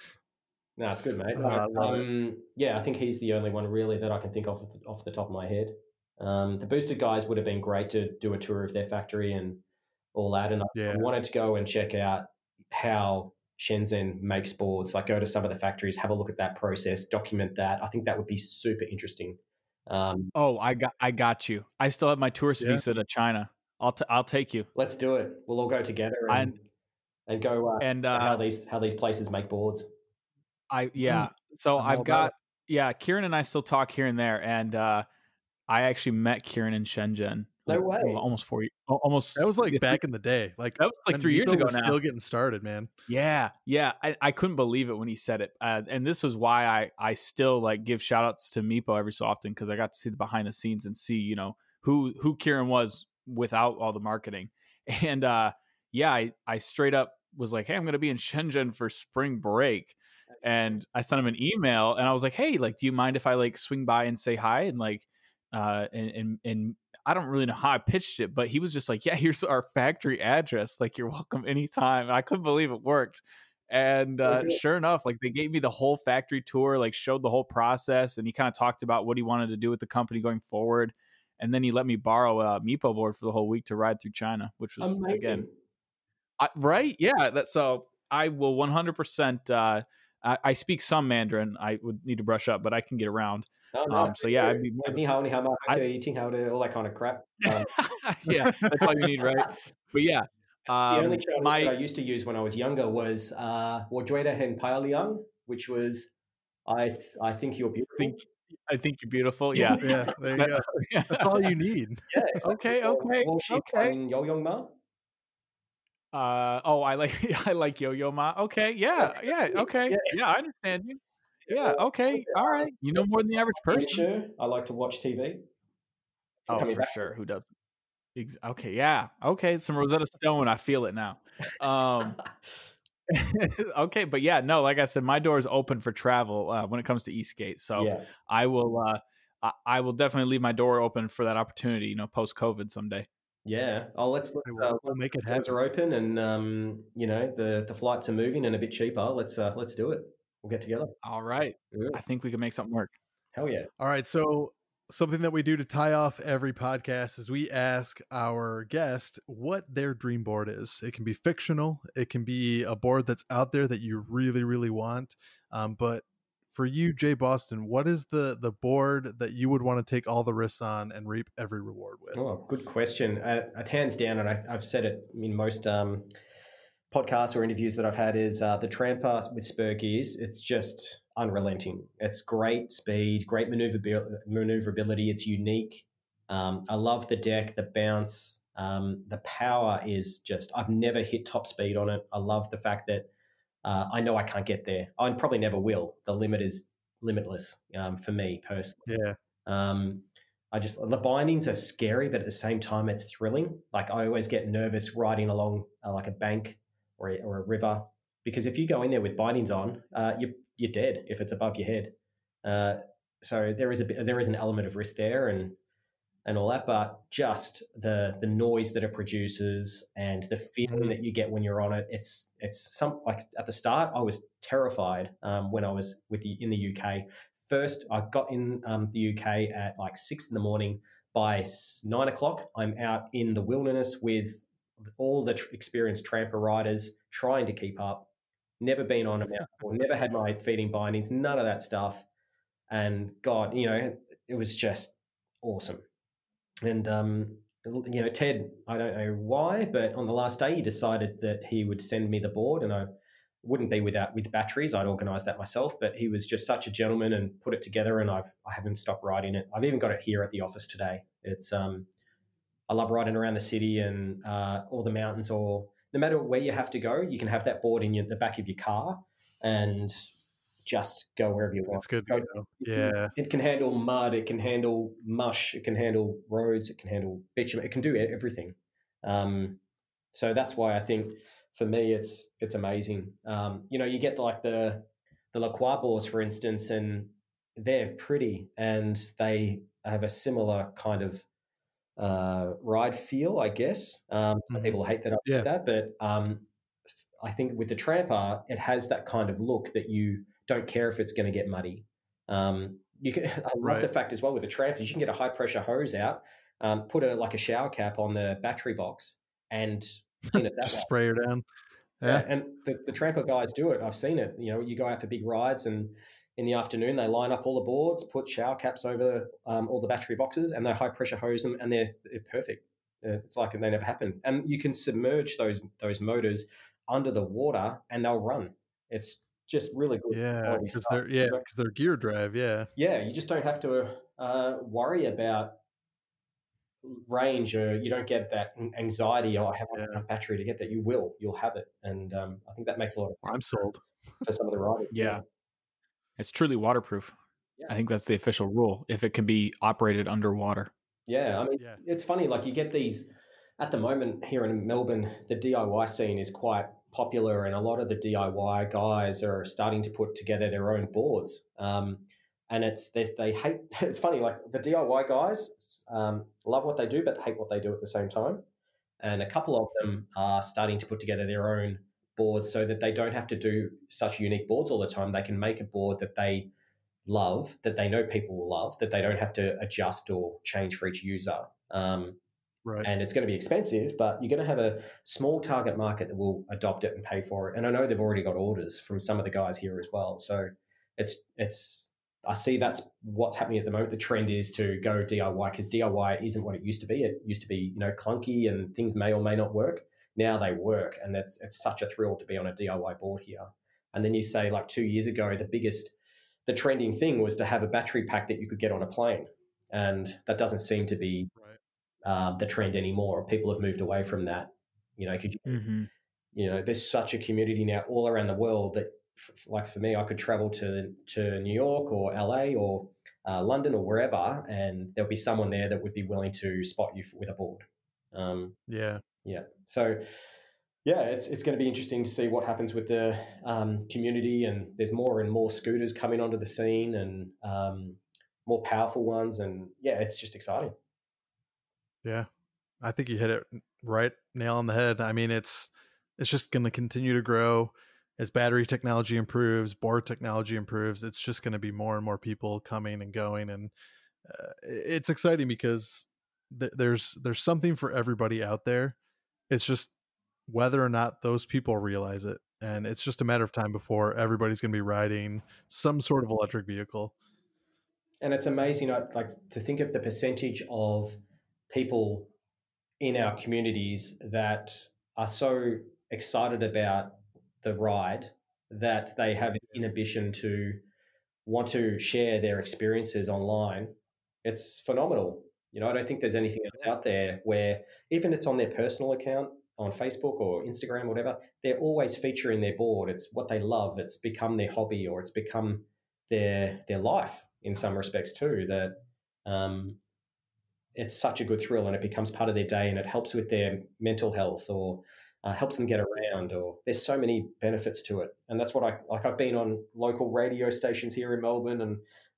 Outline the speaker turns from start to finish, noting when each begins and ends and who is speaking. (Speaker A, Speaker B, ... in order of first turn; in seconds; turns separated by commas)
Speaker A: 0.8-9.6, Speaker B: 1.4-2.0, Speaker A: 10.1-20.3, Speaker B: 10.7-11.1, Speaker C: 20.4-24.7, Speaker A: 24.8-26.6, Speaker C: 26.3-26.6, Speaker A: 27.3-29.9, Speaker C: 27.8-28.4, Speaker C: 30.7-35.1, Speaker B: 31.1-32.3, Speaker C: 35.7-40.0, Speaker A: 37.7-38.2, Speaker B: 39.4-42.9, Speaker C: 40.8-42.0, Speaker C: 43.1-85.5, Speaker A: 60.3-60.8, Speaker A: 74.2-74.6, Speaker A: 84.8-85.5, Speaker C: 86.4-95.0, Speaker A: 93.7-97.7, Speaker C: 97.4-101.7, Speaker B: 98.3-98.9, Speaker A: 100.9-106.1, Speaker A: 106.7-108.2, Speaker C: 108.0-111.5, Speaker A: 109.5-110.1, Speaker B: 109.8-112.4, Speaker A: 112.1-114.8, Speaker C: 112.4-114.0, Speaker C: 116.1-124.0, Speaker A: 119.0-120.2, Speaker A: 121.5-125.4, Speaker A: 126.5-127.1, Speaker C: 126.5-127.5, Speaker C: 128.2-132.2, Speaker C: 133.1-143.1, Speaker A: 137.8-138.1, Speaker A: 143.4-151.0, Speaker B: 144.4-145.5, Speaker C: 151.0-152.9, Speaker A: 151.7-152.0, Speaker A: 153.3-153.7, Speaker B: 153.8-172.2, Speaker A: 172.1-176.1, Speaker A: 176.9-193.1, Speaker A: 193.7-198.9, Speaker B: 198.9-199.2, Speaker A: 199.5-215.6, Speaker A: 216.2-242.1, Speaker B: 220.7-220.9, Speaker A: 242.7-245.8, Speaker A: 246.6-252.9, Speaker A: 253.4-261.9, Speaker A: 262.7-270.1, Speaker A: 270.6-279.6, Speaker B: 271.7-273.1, Speaker A: 280.1-291.3, Speaker A: 292.0-296.5, Speaker B: 294.5-295.5, Speaker A: 297.2-310.9, Speaker B: 303.6-303.9, Speaker B: 310.3-311.4, Speaker B: 312.0-312.3, Speaker A: 312.0-331.4, Speaker B: 330.1-332.7, Speaker A: 332.8-335.6, Speaker A: 336.8-343.6, Speaker B: 339.7-340.0, Speaker B: 343.2-343.8, Speaker A: 344.2-345.2, Speaker C: 344.9-345.2, Speaker C: 346.2-347.1, Speaker C: 347.7-350.7, Speaker A: 351.1-368.4, Speaker A: 369.0-376.5, Speaker A: 377.1-382.2, Speaker A: 382.8-405.9, Speaker A: 406.5-411.3, Speaker A: 412.0-415.7, Speaker C: 415.5-415.9, Speaker A: 416.3-428.6, Speaker B: 428.7-429.0, Speaker A: 429.2-430.0, Speaker A: 430.9-440.7, Speaker B: 442.8-453.7, Speaker B: 454.3-459.0, Speaker B: 459.5-459.9, Speaker B: 460.5-467.1, Speaker A: 468.2-472.3, Speaker A: 473.0-480.8, Speaker A: 481.4-500.0, Speaker A: 501.0-512.0